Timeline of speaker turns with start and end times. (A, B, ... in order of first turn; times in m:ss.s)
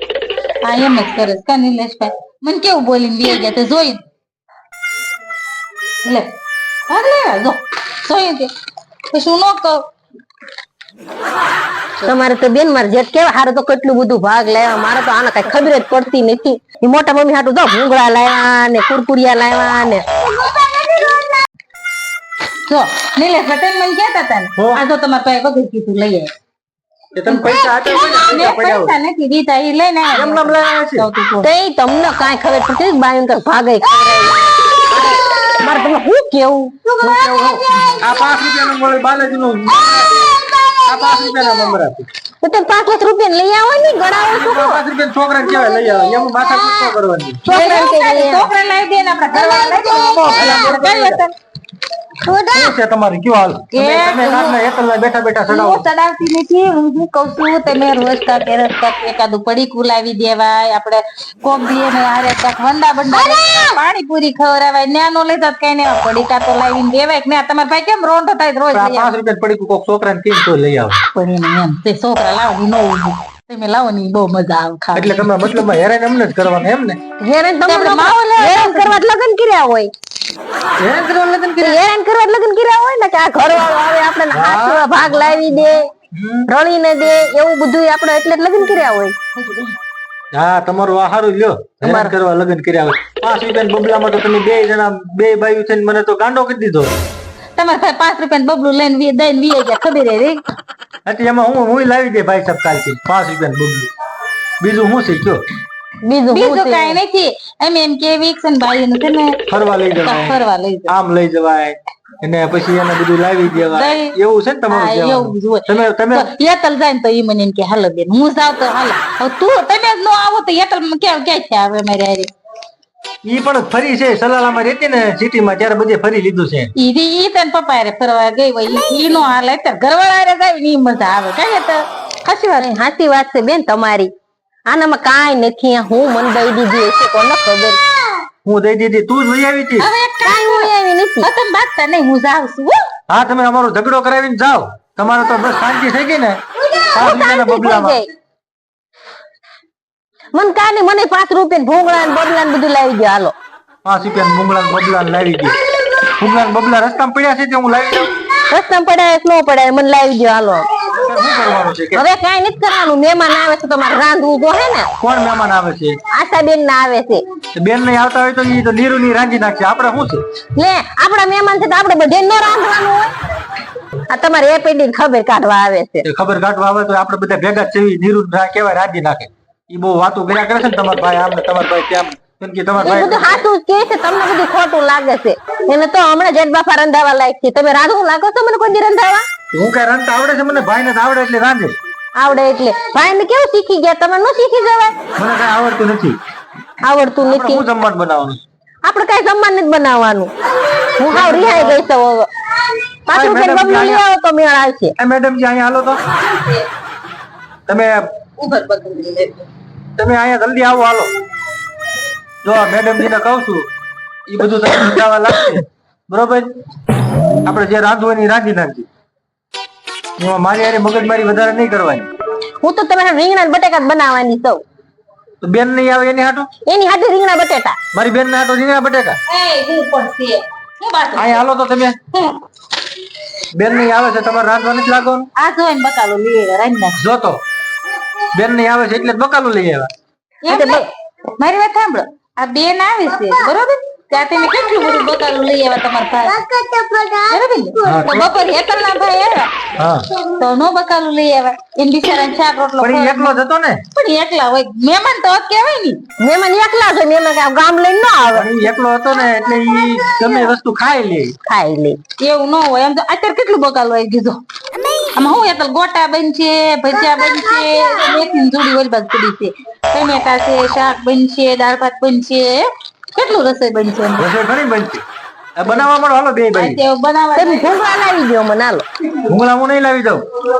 0:00.6-0:04.0 A
0:06.0-0:06.3 A
0:06.9-0:08.5 A
0:09.1-0:09.8 A
0:12.0-0:20.0 B
0:22.7-0:26.3 A
0:24.6-0:24.8 C
0:27.1-0:28.9 C
0:27.3-0:31.5 A
0:30.1-0:31.1 C
0:31.4-0:37.0 B
0:37.0-0:40.3 C
0:40.8-0:42.1 C
0:42.4-0:44.8 B
0:44.3-0:47.4 C
0:47.4-0:48.5 B
0:47.5-0:51.3 A
0:49.3-0:50.6 B
0:50.0-0:51.2 C
0:52.2-0:52.7 B
0:52.5-0:55.8 C
0:53.7-0:54.6 A
0:55.5-1:09.1 A
1:03.1-1:03.6 B
1:08.7-1:11.0 C
1:11.1-1:15.6 A
1:14.9-1:17.0 C
1:17.2-1:19.9 B
1:17.7-1:19.0 A
1:20.8-1:21.8 C
1:21.6-1:25.8 B
1:24.3-1:25.2 C
1:26.1-1:26.5 C
1:26.5-1:29.4 B
1:29.4-1:29.6 A
1:30.3-1:36.9 C
1:31.8-1:32.1 B
1:37.6-1:40.4 A
1:41.0-1:43.9 C
1:44.6-1:45.4 C
1:46.0-1:47.0 B
1:46.3-1:49.4 A
1:49.5-1:56.3 C
1:50.0-1:50.9 A
1:53.5-1:54.1 A
1:54.7-2:02.3 A
2:03.2-2:06.7 C
2:06.8-2:12.7 A
2:12.6-2:14.1 B
2:14.7-2:17.8 B
2:18.4-2:19.9 C
2:19.8-2:20.7 A
2:20.2-2:21.3 B
2:21.2-2:22.8 A
2:23.1-2:26.4 C
2:26.7-2:28.1 B
2:26.9-2:28.0 C
2:30.3-2:33.3 B
2:33.8-2:35.6 C
2:36.2-2:38.1 C
2:38.5-2:40.7 B
2:41.0-2:42.0 C
2:41.9-2:44.9 B
2:45.0-2:46.0 C
2:46.1-2:47.2 B
2:47.5-2:50.2 C
2:50.6-2:53.1 B
2:54.1-2:56.0 B
2:56.0-3:03.4 C
3:02.8-3:09.2 B
3:09.5-3:11.8 C
3:12.2-3:15.0 B
3:15.2-3:16.2 C
3:16.8-3:17.6 B
3:17.2-3:18.4 C
3:18.8-3:20.3 B
3:20.9-3:22.3 B
3:21.1-3:21.8 C
3:23.0-3:24.9 B
3:23.1-3:24.0 C
3:25.0-3:26.0 C
3:27.7-3:28.0 C
3:28.4-3:29.4 A
3:30.0-3:31.1 C
3:32.4-3:33.7 C
3:34.3-3:36.5 C
3:37.4-3:38.9 C
3:40.2-3:42.1 C
3:42.6-3:44.6 B
3:45.4-3:46.5 C
3:46.6-3:47.8 B
3:47.9-3:49.2 C
3:49.3-3:51.4 A
3:51.2-3:52.0 C
3:53.5-3:55.3 C
3:55.4-3:57.0 A
3:57.0-3:57.4 C
3:58.3-3:59.9 C
4:00.5-4:00.9 A
4:00.5-4:00.9 B
4:01.4-4:06.4 A
4:06.4-4:07.3 B
4:07.3-4:09.5 A
4:07.8-4:08.3 C
4:09.8-4:10.0 C
4:10.3-4:13.4 A
4:12.8-4:13.8 C
4:13.9-4:16.0 A
4:16.2-4:18.5 B
4:18.3-4:21.4 C
4:21.4-4:22.0 B
4:22.2-4:24.4 A
4:25.2-4:34.3 A
4:34.2-4:35.0 C
4:35.6-4:36.8 C
4:36.5-4:37.7 A
4:37.4-4:38.8 B
4:39.2-4:40.2 C